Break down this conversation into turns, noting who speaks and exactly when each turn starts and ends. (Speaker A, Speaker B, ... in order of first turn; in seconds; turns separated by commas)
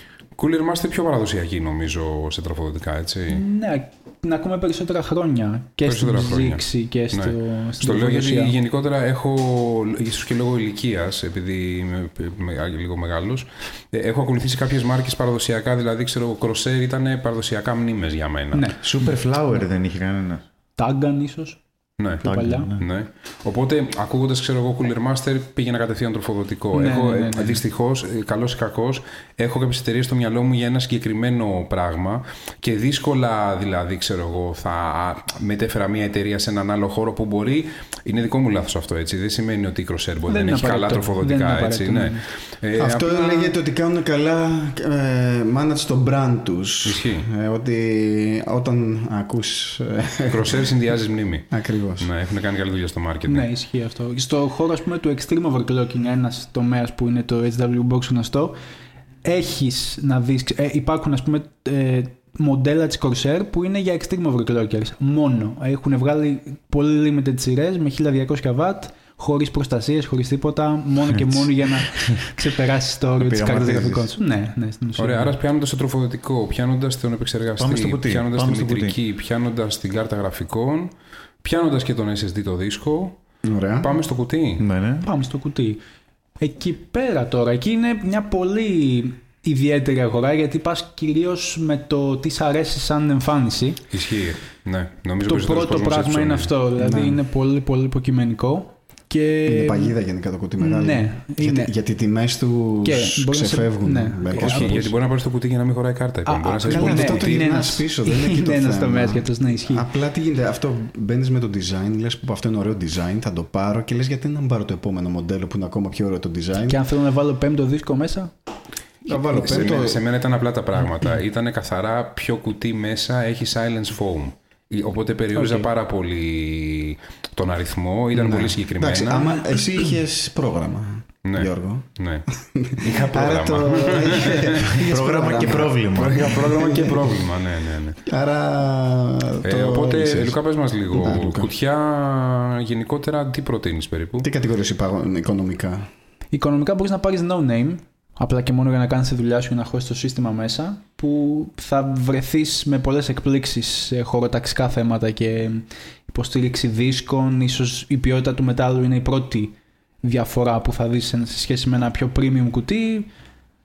Speaker A: 0.3-3.4, Speaker B: 3.3-8.6, Speaker A: 5.8-18.7, Speaker B: 18.5-18.8, Speaker C: 18.8-20.4, Speaker B: 20.8-21.6, Speaker A: 22.0-22.2, Speaker B: 22.2-22.7, Speaker C: 22.2-22.8, Speaker A: 22.8-43.5, Speaker B: 26.7-27.6, Speaker B: 40.3-42.2, Speaker D: 42.8-50.6, Speaker A: 46.8-47.3, Speaker A: 50.3-53.5, Speaker D: 51.5-52.1, Speaker B: 53.3-58.6, Speaker B: 59.2-75.3, Speaker C: 71.1-71.5, Speaker C: 73.2-74.1, Speaker A: 75.0-83.2, Speaker C: 77.6-79.0, Speaker D: 83.4-83.9, Speaker A: 83.8-84.7, Speaker C: 84.6-85.1, Speaker B: 85.0-85.8, Speaker B: 86.4-93.8, Speaker A: 93.9-96.5, Speaker B: 95.3-100.0, Speaker D: 96.8-97.2, Speaker D: 99.5-104.9, Speaker B: 100.6-101.7, Speaker B: 102.8-104.8, Speaker A: 104.3-107.6, Speaker B: 106.2-109.9, Speaker D: 106.7-116.8, Speaker B: 116.7-118.3, Speaker D: 119.1-120.0, Speaker A: 119.1-129.5, Speaker B: 125.3-125.7, Speaker D: 128.1-137.2, Speaker A: 131.2-132.3, Speaker A: 132.8-134.9, Speaker C: 134.7-136.4, Speaker A: 135.5-138.0, Speaker D: 138.0-140.4, Speaker A: 139.4-144.3, Speaker D: 140.9-141.5, Speaker D: 144.2-145.9, Speaker B: 146.3-163.1